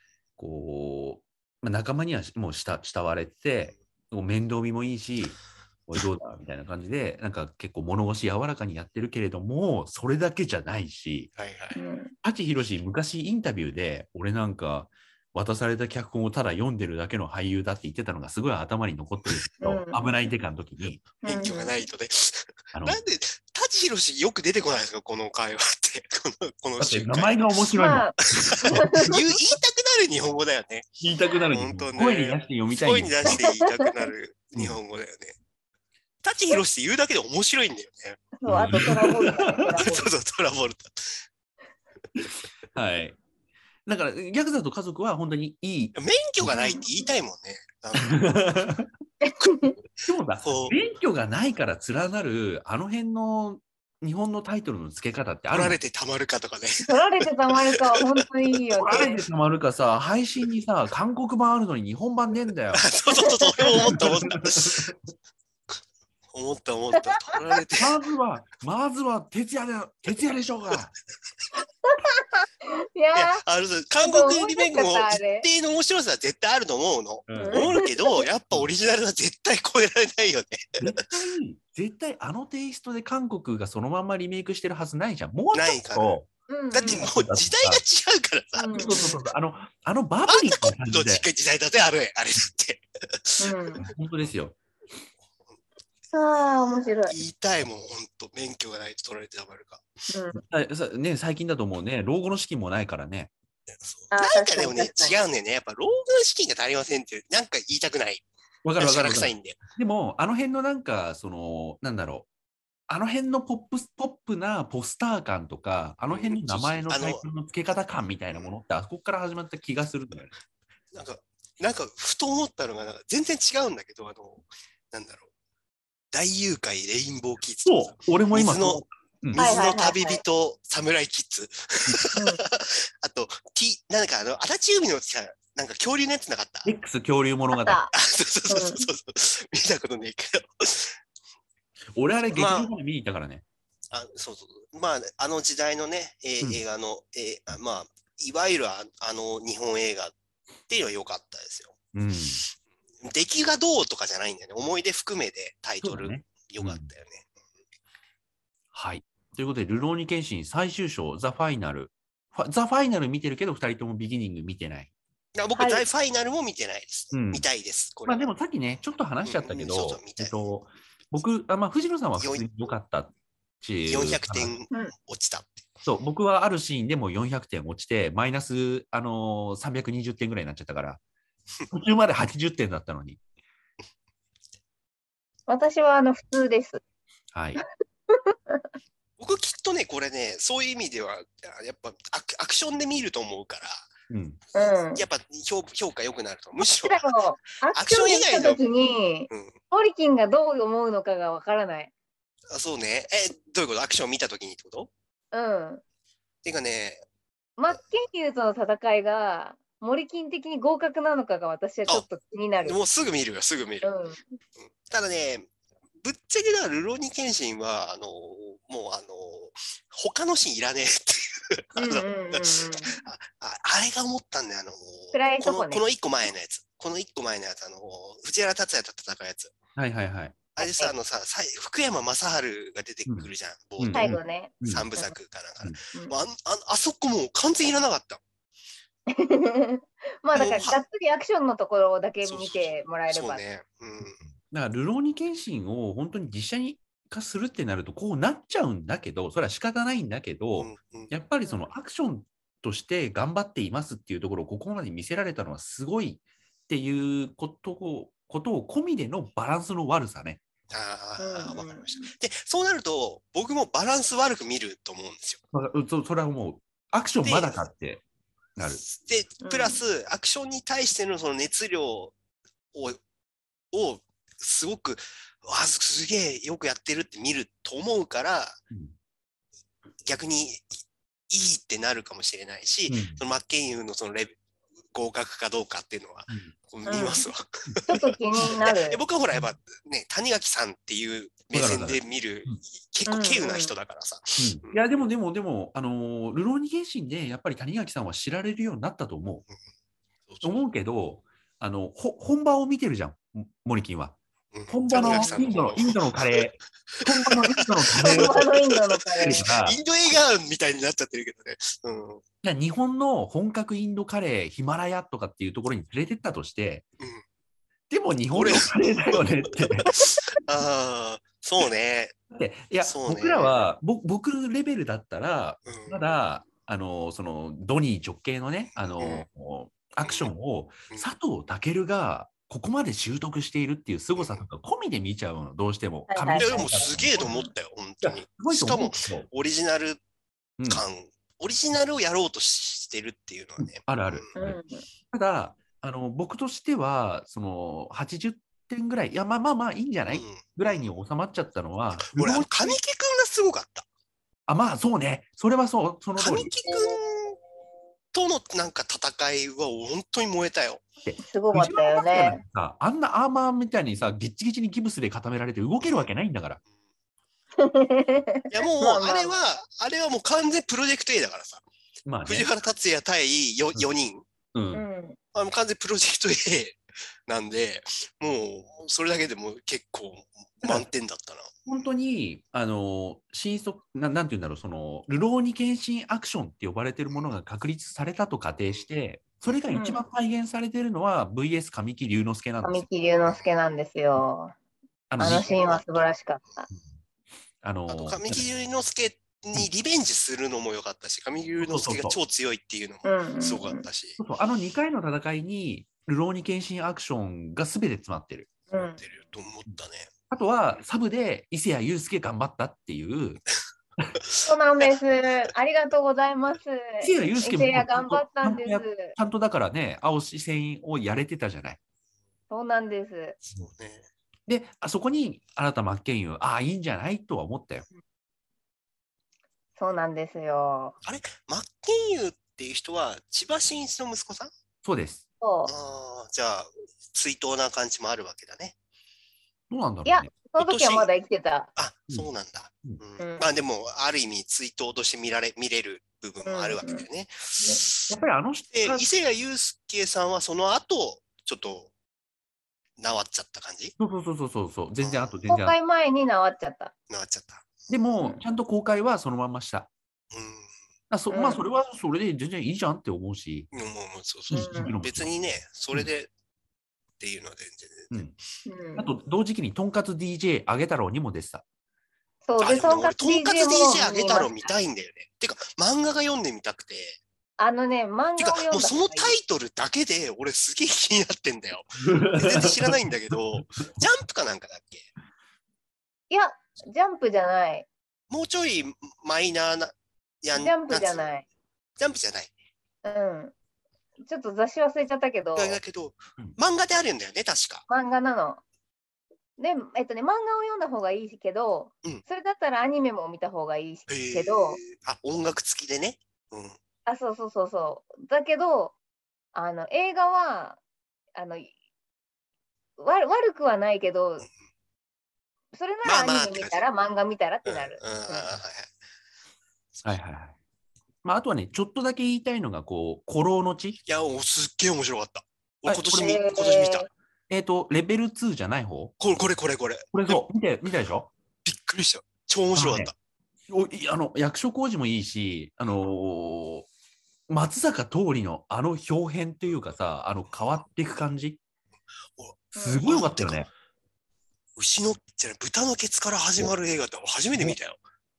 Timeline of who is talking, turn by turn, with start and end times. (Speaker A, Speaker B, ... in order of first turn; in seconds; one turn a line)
Speaker A: 0.4-11.3
Speaker B: 11.4-11.8
Speaker C: 11.7-12.1
Speaker A: 12.2-21.0
Speaker C: 19.6-20.0
Speaker B: 21.2-27.4
Speaker C: 21.2-21.8
Speaker A: 22.7-23.0
Speaker A: 26.8-29.1
Speaker C: 27.8-29.2
Speaker B: 28.3-35.4
Speaker A: 31.0-33.4
Speaker C: 33.3-33.9
Speaker B: 36.2-41.2
Speaker C: 38.4-40.1
Speaker A: 38.5-39.7
Speaker A: 42.7-43.2
Speaker A: 43.9-46.5
Speaker B: 46.0-48.5
Speaker C: 46.5-46.8
Speaker A: 48.0-48.9
Speaker C: 49.2-49.7
Speaker A: 50.0-55.8
Speaker B: 50.4-50.8
Speaker B: 55.5-56.9
Speaker C: 56.8-59.2
Speaker B: 57.7-58.2
Speaker A: 58.8-62.8
Speaker B: 62.7-64.9
Speaker C: 63.1-63.9
Speaker A: 63.8-65.0
Speaker B: 66.3-67.9
Speaker C: 67.0-67.4
Speaker A: 67.8-70.9
Speaker C: 71.8-73.4
Speaker B: 73.1-80.8
Speaker C: 74.0-75.5
Speaker A: 77.3-77.7
Speaker C: 77.4-78.2
Speaker A: 80.8-86.3
Speaker B: 85.5-86.2
Speaker C: 86.5-87.1
Speaker B: 86.7-89.0
Speaker A: 86.8-87.8
Speaker C: 88.5-89.2
Speaker A: 88.7-91.2
Speaker B: 90.3-94.2
Speaker C: 93.4-93.8
Speaker A: 93.8-94.5
Speaker C: 96.1-97.2
Speaker B: 97.1-99.8
Speaker C: 100.1-100.4
Speaker A: 100.3-103.3
Speaker B: 103.8-108.2
Speaker C: 104.1-105.2
Speaker A: 108.6-112.3
Speaker B: 108.8-109.6
Speaker A: 112.9-120.3
Speaker B: 116.1-117.2
Speaker B: 120.9-125.3
Speaker B: 126.1-136.7
Speaker A: 127.7-129.6
Speaker C: 129.4-130.2
Speaker C: 132.1-132.4
Speaker A: 136.6-137.8
Speaker C: 137.5-137.9
Speaker B: 137.9-141.0
Speaker C: 138.5-138.9
Speaker A: 141.9-143.4
Speaker B: 142.3-142.7
Speaker B: 143.9-150.1
Speaker B: 150.7-151.8
Speaker A: 151.9-152.4
Speaker B: 153.0-157.3
Speaker A: 155.8-156.9
Speaker A: 158.7-164.9
Speaker B: 165.3-168.3
Speaker C: 165.5-165.8
Speaker A: 167.1-167.4
Speaker A: 168.1-174.5
Speaker B: 169.2-170.4
Speaker B: 172.2-172.5
Speaker B: 173.9-175.7
Speaker A: 175.8-181.0
Speaker A: 181.7-183.2
Speaker C: 185.5-186.8
Speaker A: 187.3-187.6
Speaker C: 187.6-188.6
Speaker B: 189.2-193.8
Speaker A: 194.1-194.4
Speaker C: 194.5-195.0
Speaker B: 194.9-197.2
Speaker C: 196.8-201.9
Speaker B: 197.7-198.6
Speaker B: 199.3-199.5
Speaker B: 202.5-204.9
Speaker C: 205.3-205.8
Speaker B: 206.4-207.0
Speaker C: 207.6-212.8
Speaker B: 212.6-213.9
Speaker C: 213.8-214.2
Speaker B: 214.7-215.5
Speaker B: 216.0-229.5
Speaker C: 221.8-223.0
Speaker C: 225.1-225.8
Speaker A: 229.8-230.4
Speaker B: 230.6-238.2
Speaker C: 230.6-230.9
Speaker A: 233.1-234.8
Speaker C: 233.9-235.1
Speaker C: 239.1-243.4
Speaker B: 240.3-240.8
Speaker B: 242.2-244.2
Speaker A: 244.3-260.4
Speaker B: 250.6-251.1
Speaker B: 260.7-265.4
Speaker C: 261.2-262.1
Speaker A: 265.5-268.0
Speaker B: 267.2-267.6
Speaker B: 268.8-272.1
Speaker C: 269.4-269.8
Speaker B: 272.7-273.0
Speaker B: 273.7-278.6
Speaker B: 280.0-280.7
Speaker B: 281.3-284.4
Speaker A: 282.9-283.2
Speaker B: 284.9-294.8
Speaker C: 286.9-287.3
Speaker C: 287.9-289.0
Speaker A: 291.5-292.6
Speaker C: 293.1-293.7
Speaker A: 294.4-299.4
Speaker B: 300.3-300.6
Speaker A: 300.4-304.2
Speaker B: 304.5-312.2
Speaker A: 304.7-308.5
Speaker C: 305.0-305.4
Speaker C: 307.9-309.4
Speaker A: 309.2-309.8
Speaker A: 312.4-316.8
Speaker A: 317.9-319.9
Speaker B: 318.3-322.1
Speaker A: 322.3-337.3
Speaker B: 322.8-323.6
Speaker B: 325.6-326.0
Speaker B: 328.8-329.2
Speaker B: 330.0-330.3
Speaker B: 334.1-334.4
Speaker C: 336.1-337.5
Speaker B: 336.3-340.0
Speaker A: 338.0-339.3
Speaker A: 340.6-340.8
Speaker B: 340.7-344.3
Speaker A: 343.6-344.6
Speaker C: 344.4-344.8
Speaker A: 345.1-352.7
Speaker B: 350.1-350.9
Speaker B: 352.0-353.8
Speaker A: 354.5-356.5
Speaker B: 356.2-357.4
Speaker C: 356.7-356.9
Speaker B: 358.1-360.8
Speaker A: 361.0-366.6
Speaker C: 361.2-362.4
Speaker B: 365.8-366.1
Speaker C: 367.6-369.3
Speaker B: 368.5-371.6
Speaker A: 372.1-372.5
Speaker B: 372.2-374.2
Speaker A: 374.5-374.8
Speaker C: 374.7-375.2
Speaker B: 375.3-381.5
Speaker A: 381.6-392.9
Speaker C: 389.7-390.0
Speaker C: 392.6-394.5
Speaker A: 395.1-395.7
Speaker C: 395.2-396.7
Speaker B: 395.2-396.1
Speaker A: 397.6-398.4
Speaker B: 397.9-404.2
Speaker A: 401.6-402.1
Speaker C: 403.0-403.8
Speaker A: 404.2-408.5
Speaker C: 408.7-409.0
Speaker B: 408.7-410.1
Speaker A: 410.3-413.4
Speaker B: 414.2-414.9
Speaker C: 414.4-419.1
Speaker A: 417.0-421.8
Speaker C: 422.5-423.4
Speaker B: 423.4-424.1
Speaker A: 424.5-427.9
Speaker C: 429.8-430.9
Speaker B: 431.0-434.5
Speaker A: 434.8-435.2
Speaker C: 435.4-435.7
Speaker B: 435.7-438.7
Speaker A: 439.7-440.3
Speaker C: 440.0-441.7
Speaker B: 440.6-441.1
Speaker B: 441.8-448.1
Speaker C: 443.2-443.5
Speaker C: 446.4-447.0
Speaker A: 448.1-449.0
Speaker B: 448.7-451.9
Speaker B: 453.0-453.9
Speaker A: 454.0-455.8
Speaker B: 455.0-455.4
Speaker C: 455.5-456.9
Speaker B: 457.1-457.9
Speaker A: 457.9-459.9
Speaker B: 460.3-460.7
Speaker A: 461.1-463.7
Speaker C: 461.3-461.6
Speaker B: 463.7-466.3
Speaker A: 464.5-465.3
Speaker C: 464.5-464.9
Speaker B: 467.2-468.2
Speaker C: 468.6-469.1
Speaker A: 469.0-471.6
Speaker C: 472.4-474.7
Speaker B: 472.6-477.2
Speaker C: 477.6-479.4
Speaker B: 478.4-485.1
Speaker A: 482.0-482.9
Speaker C: 486.3-487.9
Speaker B: 488.3-491.3
Speaker C: 490.5-491.4
Speaker B: 492.0-492.5
Speaker C: 493.0-493.5
Speaker C: 494.2-495.8
Speaker B: 495.6-497.8
Speaker C: 497.9-498.6
Speaker C: 499.6-504.8
Speaker B: 504.1-506.8
Speaker C: 507.1-508.9
Speaker C: 509.5-510.8
Speaker C: 511.3-511.7
Speaker C: 513.0-514.5
Speaker C: 515.7-518.5
Speaker B: 516.0-516.8
Speaker B: 517.6-518.9
Speaker A: 520.0-520.5
Speaker A: 521.2-524.0
Speaker B: 524.0-527.1
Speaker A: 525.9-526.4
Speaker C: 526.1-527.1
Speaker A: 527.5-529.2
Speaker B: 529.2-530.4
Speaker A: 530.1-531.3
Speaker B: 531.6-533.1
Speaker A: 532.8-533.1
Speaker A: 533.7-536.9
Speaker A: 537.5-541.6
Speaker B: 542.4-543.7
Speaker C: 542.7-543.1
Speaker A: 542.8-543.7
Speaker B: 544.8-548.0